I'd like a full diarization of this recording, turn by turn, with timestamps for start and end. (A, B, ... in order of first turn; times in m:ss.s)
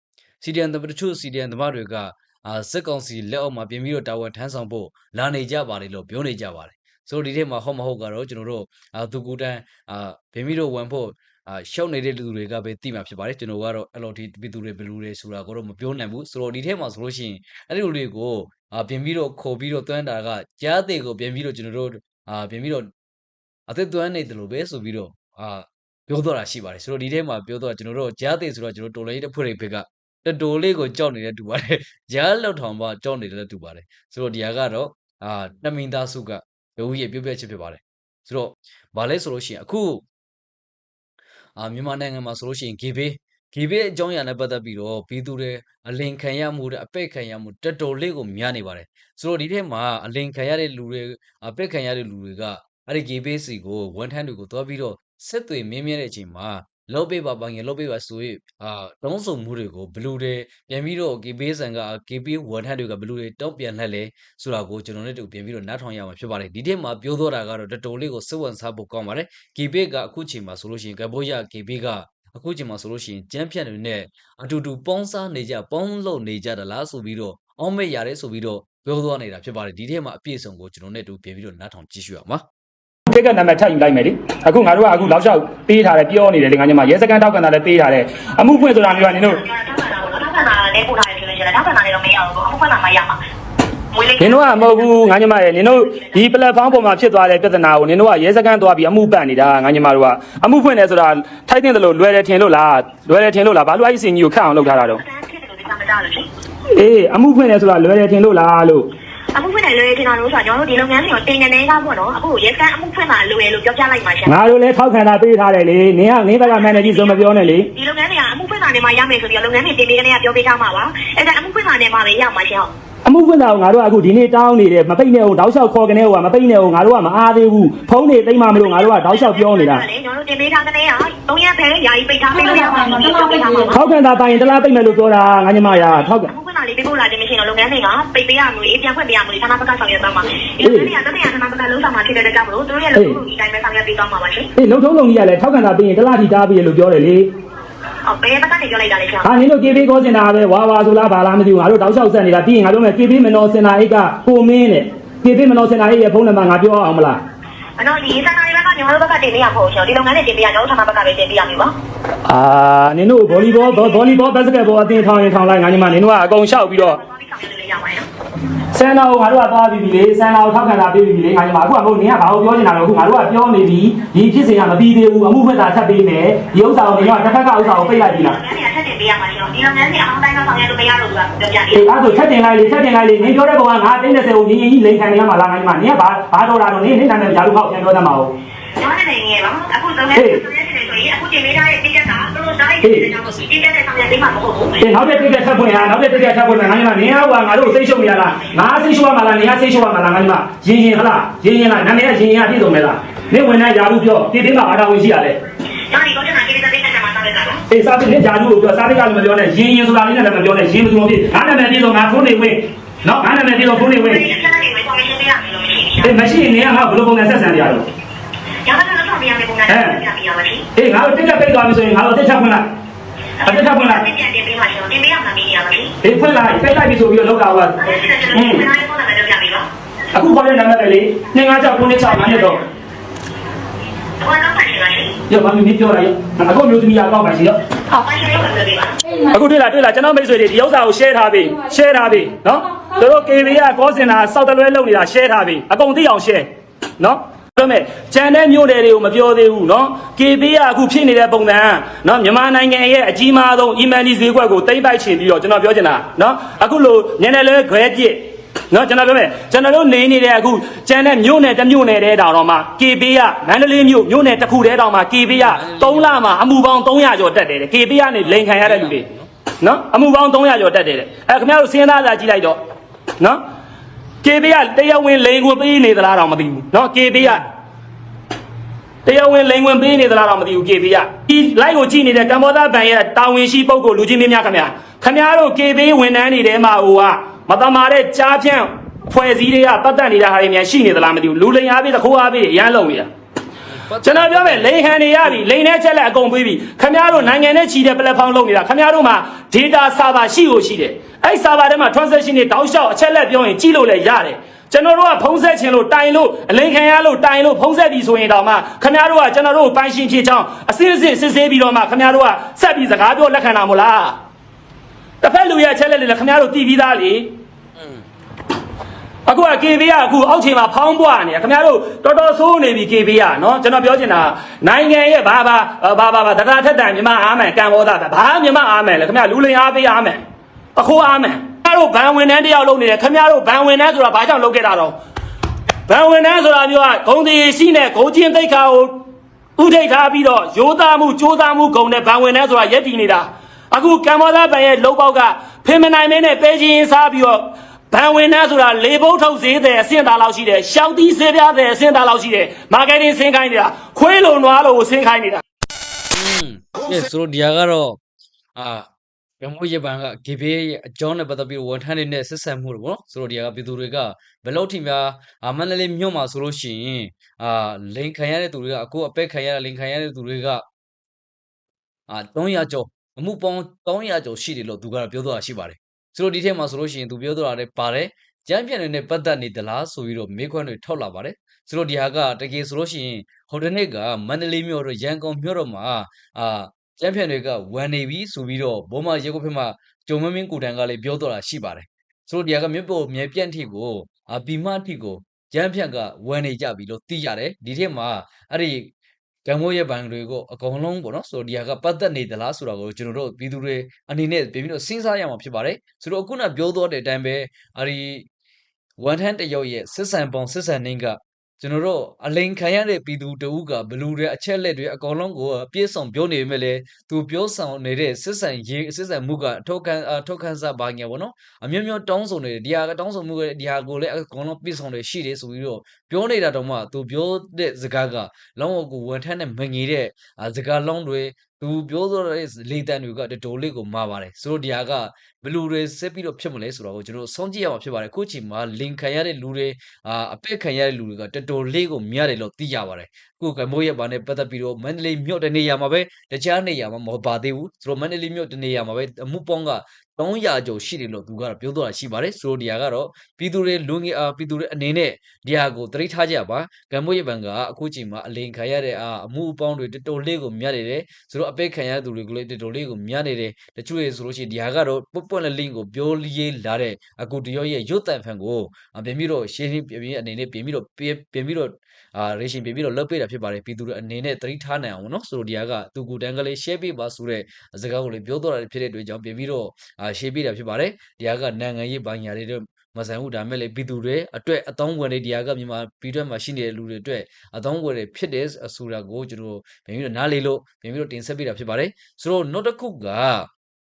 0:00.4-0:22.9 A
0:23.7-0:40.0 A
0:41.6-1:22.4 A
1:23.1-1:29.4 B
1:28.6-1:33.2 C
1:33.9-1:36.3 C
1:34.2-1:45.0 B
1:44.6-1:46.3 C
1:46.8-1:48.9 B
1:49.3-1:54.4 C
1:54.2-1:57.7 B
1:56.4-2:02.7 C
2:03.0-2:09.9 B
2:08.5-2:24.5 C
2:13.7-2:16.3 B
2:20.6-2:20.9 B
2:22.9-2:23.2 B
2:24.6-2:27.3 B
2:28.0-2:29.3 C
2:29.2-2:37.2 B
2:37.8-2:41.7 C
2:42.3-2:47.0 B
2:43.3-2:48.0 C
2:48.7-2:58.4 B
2:56.6-3:01.9 C
3:01.7-3:08.3 B
3:08.8-3:17.8 C
3:10.1-3:10.4 B
3:12.8-3:13.1 B
3:14.8-3:25.4 B
3:25.9-3:27.6 C
3:27.7-3:34.4 B
3:33.6-3:36.2 C
3:36.0-3:37.9 B
3:38.6-3:40.6 C
3:39.7-3:40.0 B
3:40.8-3:42.7 B
3:43.4-3:45.9 C
3:43.4-3:44.0 B
3:46.0-3:48.7 B
3:47.8-3:49.7 C
3:50.1-3:52.6 B
3:51.9-3:52.6 C
3:54.2-3:55.1 C
3:55.3-3:57.6 B
3:57.9-3:59.0 C
3:59.3-4:29.1 B
4:25.3-4:26.2 A
4:28.2-4:29.3 A
4:29.6-4:32.6 B
4:34.2-4:37.5 B
4:39.0-4:53.1 B
4:53.7-4:55.4 A
4:54.0-5:14.2 B
4:57.1-4:57.4 A
5:15.2-5:17.3 B
5:17.8-5:18.0 A
5:19.3-5:30.2 B
5:30.8-5:35.0 B
5:35.9-5:39.0 B
5:39.6-5:55.4 B
5:56.1-5:58.0 A
5:58.6-5:58.9 A
5:59.4-6:10.6 A
6:12.1-6:38.9 A
6:39.4-6:48.3 A
6:49.0-8:13.5 A